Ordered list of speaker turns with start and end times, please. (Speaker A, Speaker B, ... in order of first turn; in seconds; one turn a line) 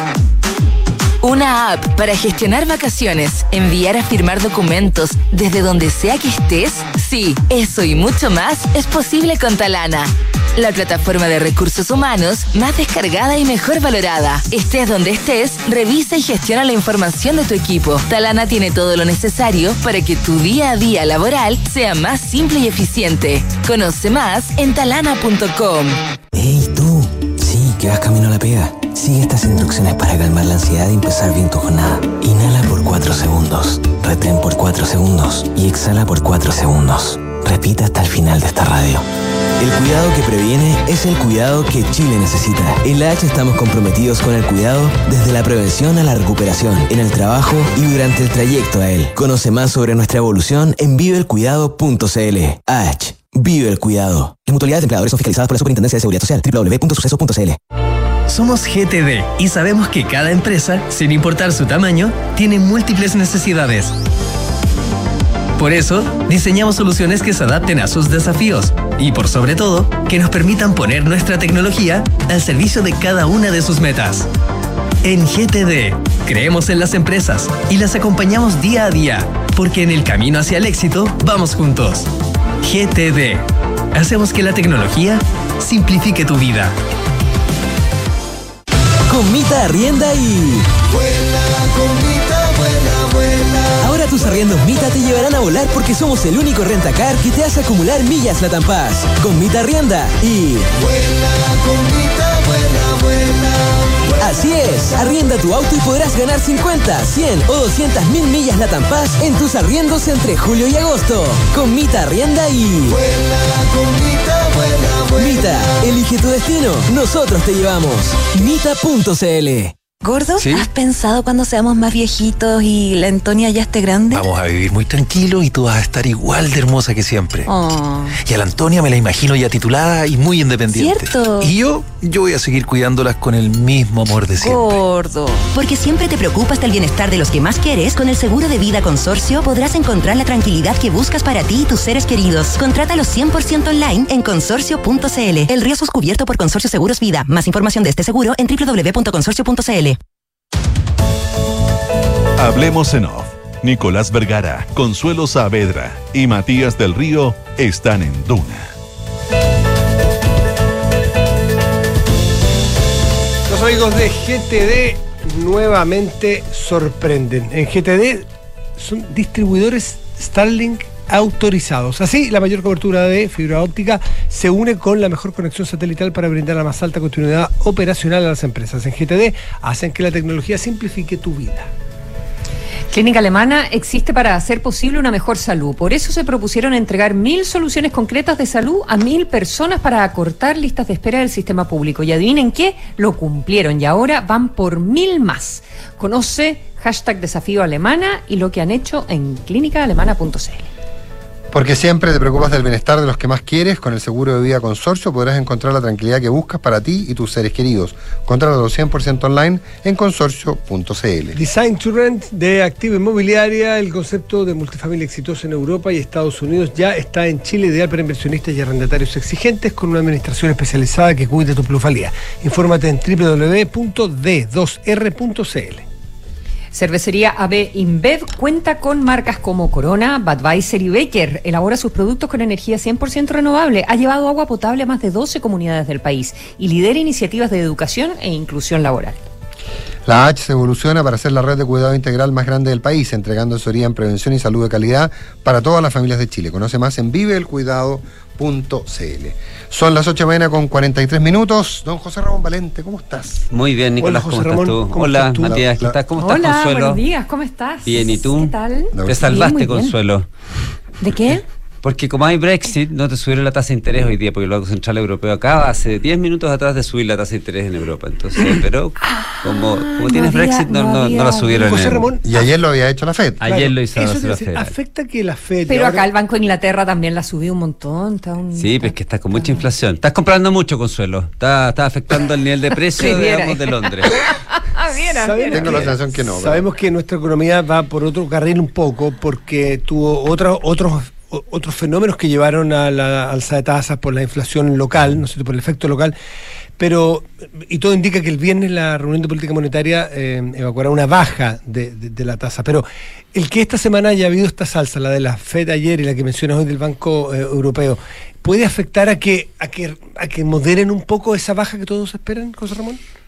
Speaker A: 1.2-26.0
Speaker B: 26.3-39.0
Speaker B: 39.6-57.6
Speaker C: 58.3-63.9
Speaker C: 65.6-74.3
Speaker C: 75.0-82.1
Speaker C: 82.6-83.4
Speaker C: 83.9-86.7
Speaker B: 89.1-103.6
Speaker B: 104.1-119.7
Speaker D: 120.0-124.3
Speaker E: 120.4-120.7
Speaker E: 124.1-127.5
Speaker F: 127.5-128.1
Speaker D: 127.5-128.1
Speaker E: 128.2-134.8
Speaker D: 130.7-131.5
Speaker D: 134.4-135.5
Speaker G: 135.5-150.0
Speaker H: 152.4-158.7
Speaker I: 163.5-168.2
Speaker I: 168.8-181.7
Speaker F: 182.9-200.7
Speaker J: 201.5-211.4
Speaker I: 211.3-225.8
Speaker F: 226.7-239.2
Speaker J: 240.0-253.4
Speaker K: 253.5-257.0
Speaker I: 254.0-255.6
Speaker J: 255.4-255.9
Speaker F: 256.2-259.9
Speaker K: 257.9-260.3
Speaker J: 258.9-259.3
Speaker F: 261.0-261.4
Speaker K: 261.8-272.1
Speaker F: 269.3-271.7
Speaker I: 271.6-272.2
Speaker J: 272.2-273.4
Speaker K: 273.4-274.7
Speaker I: 273.4-276.1
Speaker F: 275.6-279.6
Speaker K: 278.6-284.2
Speaker F: 282.9-285.9
Speaker I: 285.1-296.1
Speaker J: 285.5-286.6
Speaker I: 296.8-313.0